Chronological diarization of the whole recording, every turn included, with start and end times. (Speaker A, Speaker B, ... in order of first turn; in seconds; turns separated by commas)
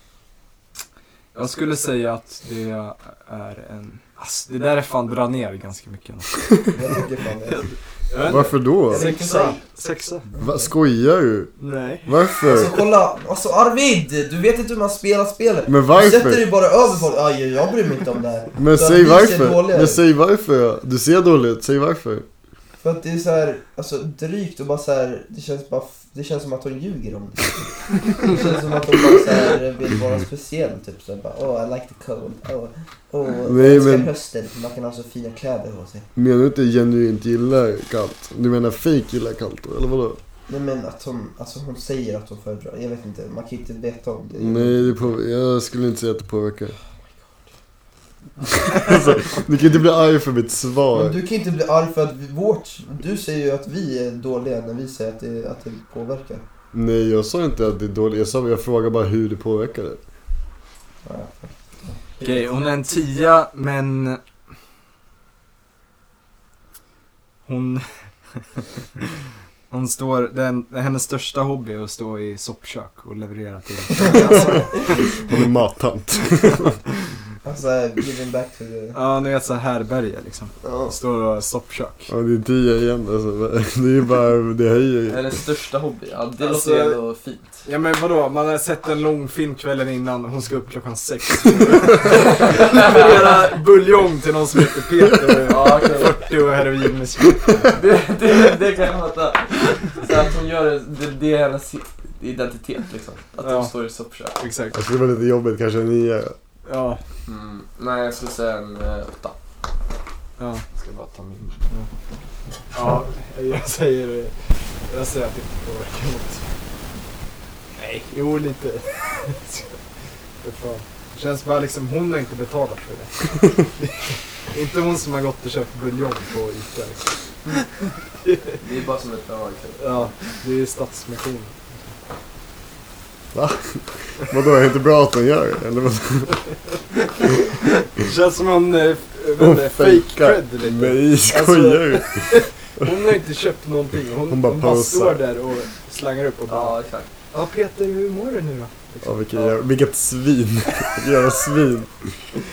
Speaker A: 1.3-6.5, Speaker B: 6.7-9.6, Speaker A: 7.5-10.3, Speaker C: 8.2-9.1, Speaker C: 10.4-11.5, Speaker A: 11.6-12.1, Speaker C: 12.0-12.8, Speaker B: 12.4-20.0, Speaker C: 15.7-16.5, Speaker C: 18.6-22.2, Speaker B: 22.8-36.1, Speaker C: 33.5-34.1, Speaker C: 36.1-40.2, Speaker B: 40.5-45.1, Speaker C: 44.4-46.8, Speaker C: 48.6-51.2, Speaker B: 50.9-56.4, Speaker C: 56.7-60.0, Speaker B: 61.0-62.4, Speaker A: 62.2-64.2, Speaker A: 67.5-67.8, Speaker A: 69.7-74.7, Speaker B: 73.9-75.1, Speaker C: 74.1-74.6, Speaker C: 75.2-76.8, Speaker B: 77.4-79.0, Speaker A: 78.9-82.1, Speaker B: 80.6-80.9, Speaker C: 82.1-85.3, Speaker D: 85.1-87.7, Speaker A: 86.4-87.0, Speaker A: 87.6-97.7, Speaker D: 92.7-93.1, Speaker D: 95.5-96.2, Speaker D: 97.7-104.4, Speaker A: 103.4-103.7, Speaker A: 104.4-104.8, Speaker C: 104.7-106.3, Speaker A: 106.7-107.0, Speaker D: 107.2-109.4, Speaker A: 110.4-110.6, Speaker D: 110.8-111.6, Speaker A: 112.7-116.5, Speaker A: 117.7-119.8, Speaker A: 120.4-127.1, Speaker A: 128.2-128.6, Speaker D: 128.6-130.1, Speaker A: 129.8-131.9, Speaker C: 133.3-136.4, Speaker A: 138.0-146.8, Speaker C: 139.4-142.8, Speaker C: 144.3-145.2, Speaker D: 146.5-147.1, Speaker A: 147.3-149.1, Speaker C: 149.0-152.2